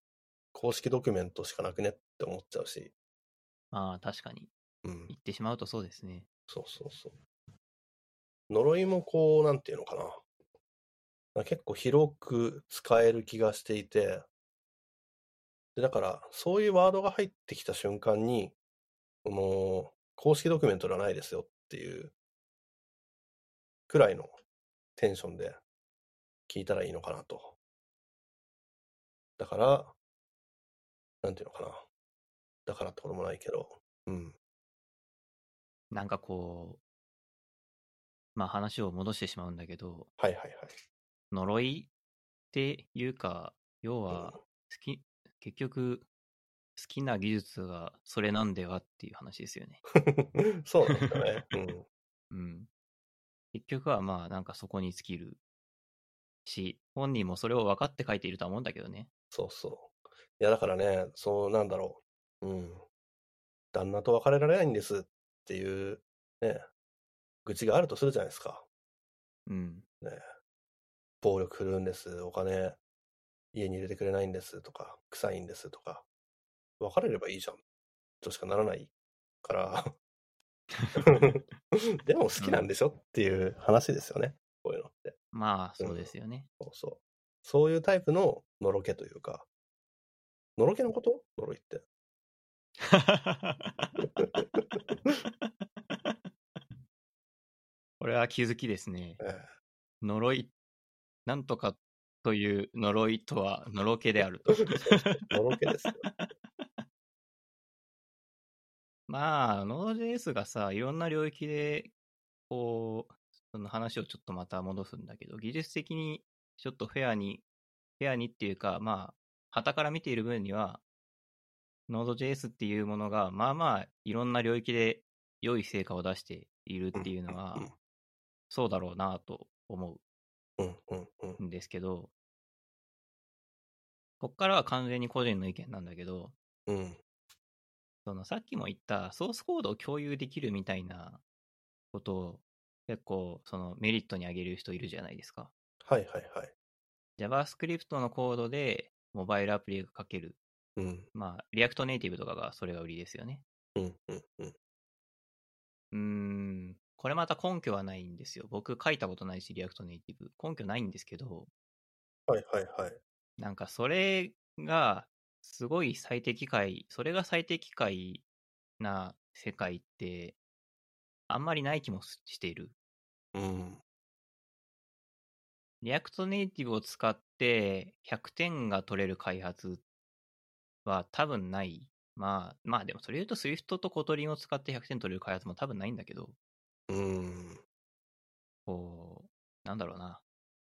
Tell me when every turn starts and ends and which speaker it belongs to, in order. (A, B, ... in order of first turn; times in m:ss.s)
0:00.5-0:02.9 A
0:03.7-0:04.5 B
0:04.8-0:05.1 A
0:05.1-0:06.3 B
0:06.5-0:07.2 A
0:08.5-0:10.2 A
0:11.3-0:14.2 A
0:15.8-0:18.6 A
0:19.2-0:22.1 A
0:23.9-0:24.4 A
0:25.0-0:25.6 A
0:26.5-0:27.5 A
0:29.4-0:29.9 A
0:31.2-0:31.8 A
0:32.6-0:34.3 A
0:35.9-0:36.8 B
0:38.3-0:40.1 B
0:40.2-0:40.8 A
0:41.3-0:41.9 B
0:42.5-0:46.1 B
0:44.1-0:44.4 A
0:46.8-0:49.8 B
0:49.9-0:51.8 A
0:50.8-0:51.2 B
0:52.3-0:52.7 B
0:53.5-0:55.4 B
0:56.4-0:59.1 B
0:59.3-1:02.8 A
1:03.7-1:06.6 A
1:07.4-1:08.6 A
1:09.5-1:09.8 B
1:11.2-1:12.8 A
1:13.5-1:16.0 A
1:16.8-1:17.6 A
1:18.2-1:18.9 A
1:19.4-1:19.9 A
1:20.8-1:21.2 B
1:21.0-1:25.2 A
1:22.4-1:22.7 B
1:25.3-1:26.5 B
1:25.8-1:29.5 A
1:30.6-1:31.8 A
1:32.8-1:34.4 B
1:35.5-1:36.1 B
1:38.0-1:39.2 B
1:39.2-1:39.5 A
1:40.0-1:40.5 B
1:41.2-1:45.3 B
1:44.6-1:46.0 A
1:45.8-1:46.6 B
1:49.1-1:51.9 B
1:52.5-1:57.4 B
1:58.0-2:00.8 B
2:01.9-2:07.7 B
2:06.9-2:07.7 A
2:08.5-2:10.0 B
2:10.6-2:11.4 A
2:11.4-2:12.1 B
2:14.2-2:16.3 B
2:16.7-2:17.0 A
2:18.0-2:21.2 B
2:21.9-2:25.5 B
2:25.8-2:26.5 A
2:27.2-2:30.4 B
2:30.8-2:31.1 A
2:31.1-2:33.4 B
2:33.8-2:34.5 A
2:35.9-2:41.5 B
2:42.3-2:43.0 A
2:43.4-2:48.2 B
2:48.8-2:50.4 B
2:51.3-2:52.7 B
2:53.3-2:53.8 A
2:55.8-2:59.8 B
3:00.8-3:06.4 B
3:06.9-3:07.6 A
3:08.7-3:10.2 B